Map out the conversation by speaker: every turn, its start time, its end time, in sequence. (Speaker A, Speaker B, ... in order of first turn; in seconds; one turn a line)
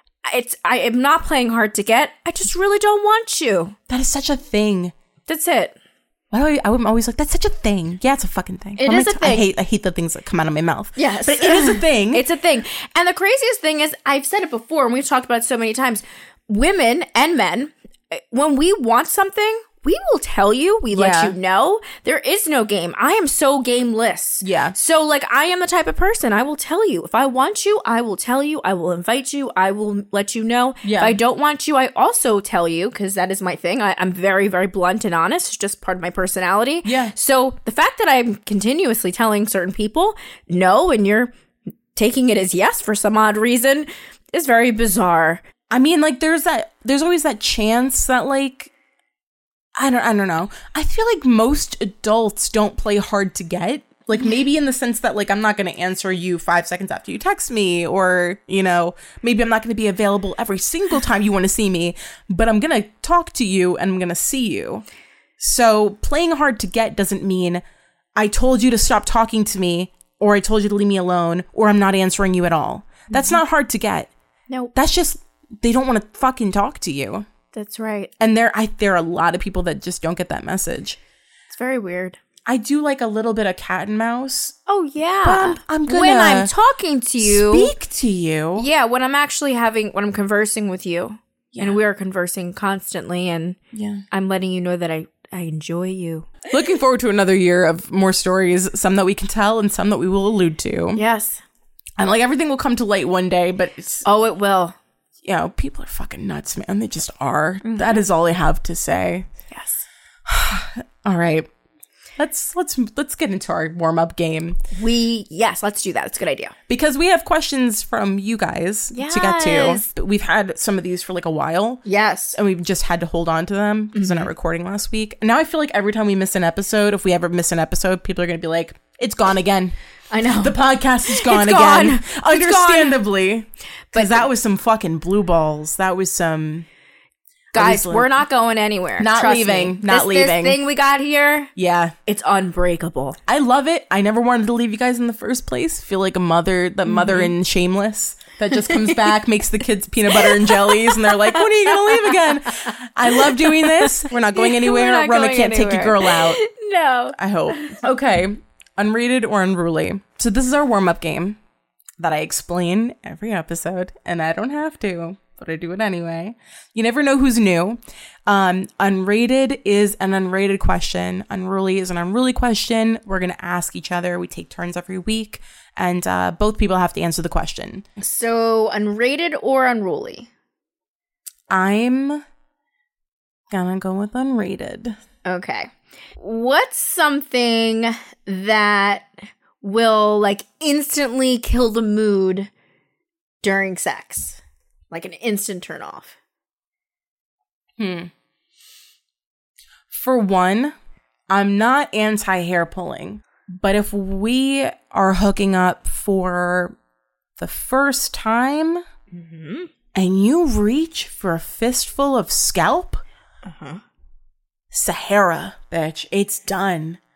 Speaker A: 0.3-3.8
Speaker B: 3.9-4.9
Speaker A: 5.3-5.8
Speaker B: 6.3-12.2
Speaker A: 8.8-9.5
Speaker A: 11.0-41.3
Speaker B: 20.9-21.4
Speaker B: 24.4-24.8
Speaker B: 30.8-31.2
Speaker B: 36.9-37.1
Speaker A: 42.0-45.4
Speaker B: 45.7-48.7
Speaker B: 49.8-64.8
Speaker B: 65.4-67.6
Speaker B: 68.2-74.1
Speaker A: 73.1-73.4
Speaker B: 74.8-77.3
Speaker A: 77.5-78.1
Speaker B: 78.2-81.0
Speaker A: 81.5-82.2
Speaker B: 82.5-84.5
Speaker A: 84.7-87.7
Speaker B: 85.2-86.5
Speaker B: 87.2-88.7
Speaker A: 88.6-93.6
Speaker B: 91.5-91.8
Speaker B: 93.7-94.0
Speaker A: 94.1-96.3
Speaker B: 96.5-101.0
Speaker A: 101.0-101.4
Speaker B: 102.0-104.0
Speaker A: 104.0-104.8
Speaker B: 105.2-109.3
Speaker A: 107.6-108.0
Speaker A: 109.5-109.8
Speaker B: 110.3-111.5
Speaker B: 112.2-114.6
Speaker A: 114.7-116.5
Speaker B: 116.7-121.8
Speaker A: 118.9-119.9
Speaker A: 121.8-122.4
Speaker B: 122.3-129.8
Speaker A: 124.0-124.3
Speaker A: 130.1-133.0
Speaker B: 130.3-136.7
Speaker A: 133.9-134.3
Speaker A: 137.5-141.5
Speaker B: 137.6-138.2
Speaker B: 139.0-140.6
Speaker B: 141.6-141.9
Speaker A: 142.1-143.2
Speaker B: 143.3-156.4
Speaker A: 146.9-147.3
Speaker A: 148.5-149.1
Speaker A: 150.1-157.8
Speaker B: 157.2-161.4
Speaker B: 162.0-178.0
Speaker A: 178.0-180.3
Speaker B: 181.5-182.2
Speaker B: 183.5-184.9
Speaker A: 185.2-189.1
Speaker A: 189.6-192.5
Speaker A: 193.4-194.4
Speaker A: 194.9-196.2
Speaker B: 197.8-198.1
Speaker B: 199.9-200.7
Speaker B: 201.3-206.8
Speaker B: 207.4-208.8
Speaker A: 209.1-209.7
Speaker B: 209.9-213.0
Speaker A: 213.4-213.8
Speaker B: 214.7-217.0